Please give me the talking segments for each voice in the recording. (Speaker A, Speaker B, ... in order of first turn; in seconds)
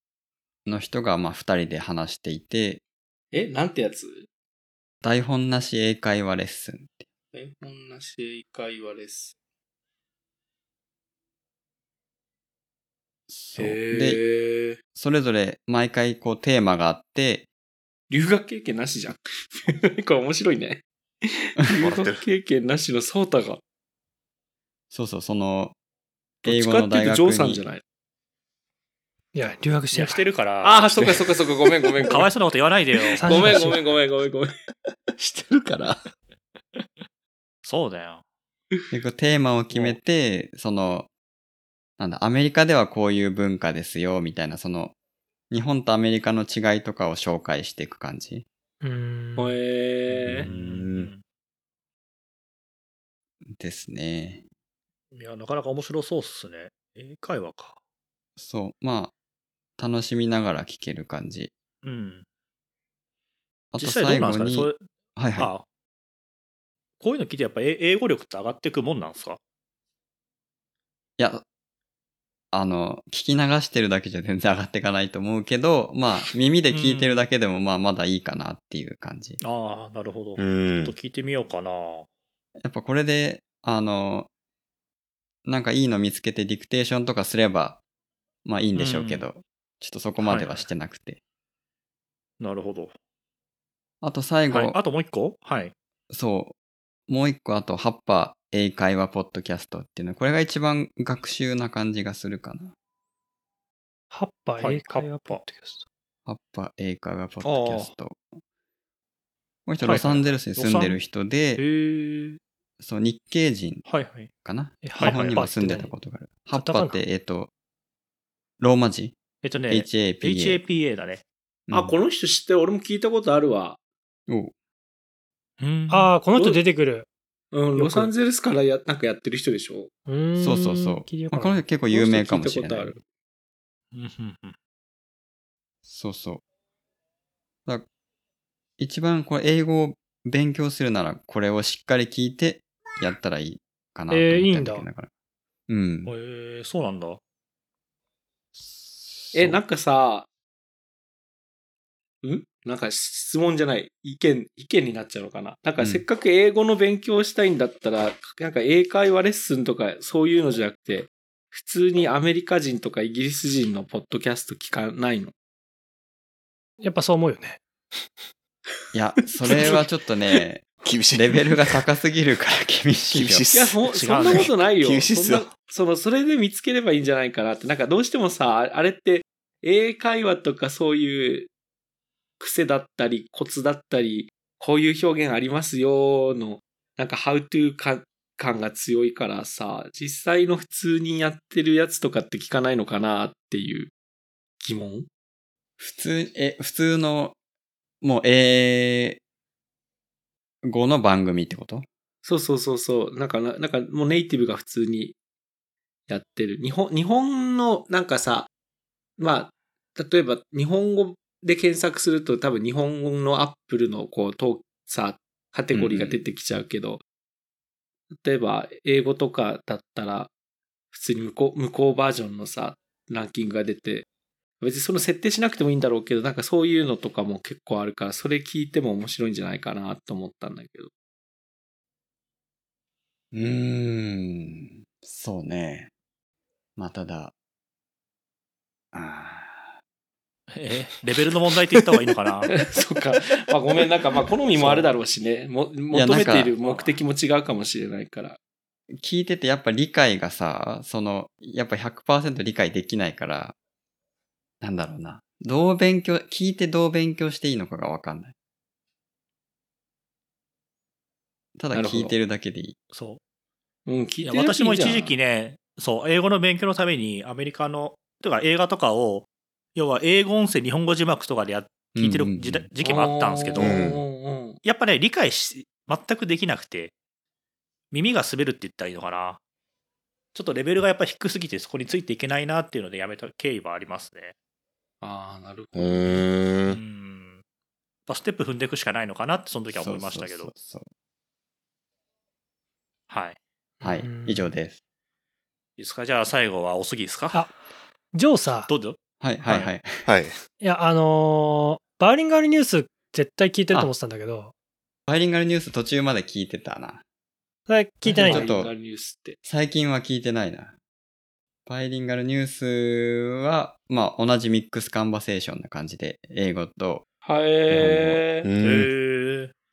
Speaker A: 0.7-2.8, 5.0-7.1, 13.3-14.2, 14.9-17.5, 24.9-25.8, 26.4-27.6, 38.9-41.1, 42.0-44.9, 45.5-48.5, 50.2-50.6, 53.5-54.5, 58.4-59.1, 59.8-61.5, 63.7-65.5, 71.2-71.4, 72.5-79.4, 82.6-84.3, 85.5-87.8, 88.5-91.2, 94.0-94.8, 96.1-96.5, 97.1-102.7, 106.3-108.2, 109.7-111.6, 112.8-113.9, 114.4-117.5, 118.6-119.2, 119.7-120.6, 121.7-122.0, 124.3-124.5, 130.4-132.9, 135.8-136.4, 138.8-145.1, 145.7-146.1, 148.7-149.6, 168.9-173.5, 195.8-197.4, 198.0-199.2, 200.7-201.9, 215.7-216.2, 233.3-235.9, 236.8-237.3, 238.9-239.7, 245.9-246.6, 249.0-253.6, 254.6-258.3, 261.6-262.8, 271.9-272.7, 289.7-290.9, 293.8-294.8, 299.2-300.1, 305.1-307.0, 308.2-308.7, 309.4-310.7, 311.7-317.1, 317.7-318.2
Speaker B: 3.3-4.3, 7.3-9.3, 13.6-14.8, 18.1-23.6, 26.4-27.8, 30.6-32.3, 33.2-34.5, 35.2-36.0, 49.4-50.5, 121.7-123.8, 127.5-129.9, 131.9-133.0, 149.3-150.3, 152.2-165.3, 173.5-181.5, 182.4-193.9, 194.6-195.1, 202.2-205.2, 206.1-208.5, 209.2-217.0, 218.1-220.3, 220.9-224.1, 224.6-230.9, 242.5-248.4, 261.7-262.1, 263.9-265.1, 272.8-274.6, 285.0-286.2, 308.1-309.4, 317.2-318.5
Speaker C: 21.7-22.2, 30.9-32.2, 50.5-51.0, 80.4-81.0, 169.5-169.8, 170.8-171.6, 173.1-175.5, 273.6-274.0, 285.8-286.8, 300.1-300.4, 318.4-318.9
Speaker D: 29.4-30.2, 33.1-33.8, 48.8-49.6, 104.1-105.8, 114.8-115.9, 116.5-117.0, 125.9-127.1, 127.8-128.1, 130.1-131.7, 144.1-144.8, 166.8-167.6, 294.0-294.5, 298.1-298.7, 300.6-304.5, 307.7-308.5
Speaker E: 29.9-30.9, 32.1-33.6, 37.6-38.2, 39.7-40.0, 50.4-51.2, 55.1-57.8, 61.8-62.2, 63.8-64.8, 65.4-65.7, 67.0-69.4, 76.7-77.3, 79.4-82.1, 88.8-89.3, 90.2-90.7, 92.4-93.0, 94.5-95.7, 104.6-105.4, 107.4-107.9, 109.8-111.0, 111.6-112.4, 113.9-114.3, 115.0-115.5, 119.4-121.2, 125.6-126.1, 133.9-134.6, 146.1-147.2, 173.9-174.5, 240.5-242.5, 246.6-247.0, 262.9-263.2, 264.2-273.8, 274.6-276.9, 277.9-279.4, 280.3-284.4, 286.7-287.4, 288.1-290.5, 293.1-293.4, 295.8-297.5, 298.7-299.7, 318.6-319.5